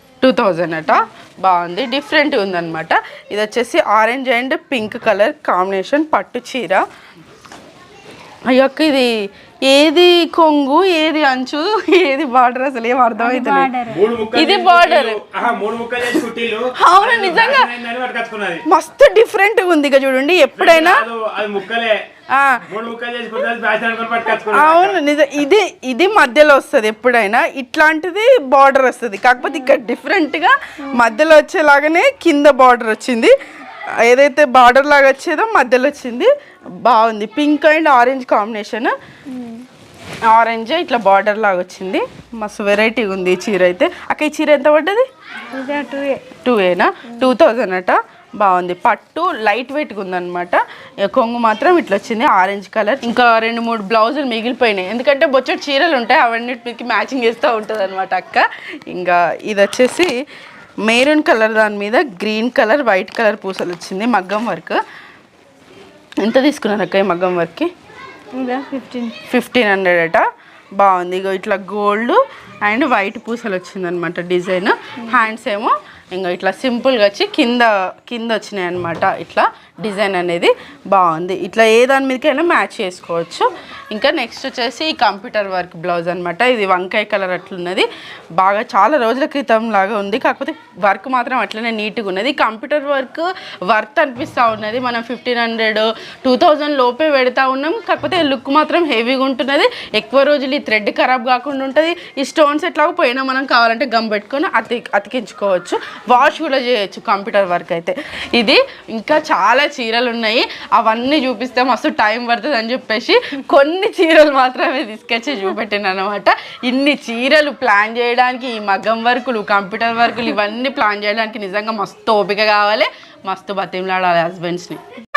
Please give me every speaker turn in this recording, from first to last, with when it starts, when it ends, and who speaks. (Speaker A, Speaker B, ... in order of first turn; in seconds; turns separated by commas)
Speaker A: 0.2-6.8, Speaker A: 8.5-13.7, Speaker B: 13.2-14.0, Speaker C: 13.9-18.6, Speaker A: 14.3-15.2, Speaker A: 16.8-17.7, Speaker A: 18.7-21.1, Speaker C: 20.6-22.0, Speaker A: 22.3-22.6, Speaker C: 22.7-25.0, Speaker A: 24.5-33.4, Speaker A: 34.0-39.0, Speaker B: 39.3-39.7, Speaker A: 40.3-45.1, Speaker B: 45.5-46.3, Speaker A: 46.4-60.2, Speaker A: 60.9-64.8, Speaker A: 66.2-67.7, Speaker B: 68.3-69.2, Speaker A: 69.3-70.3, Speaker A: 70.8-124.8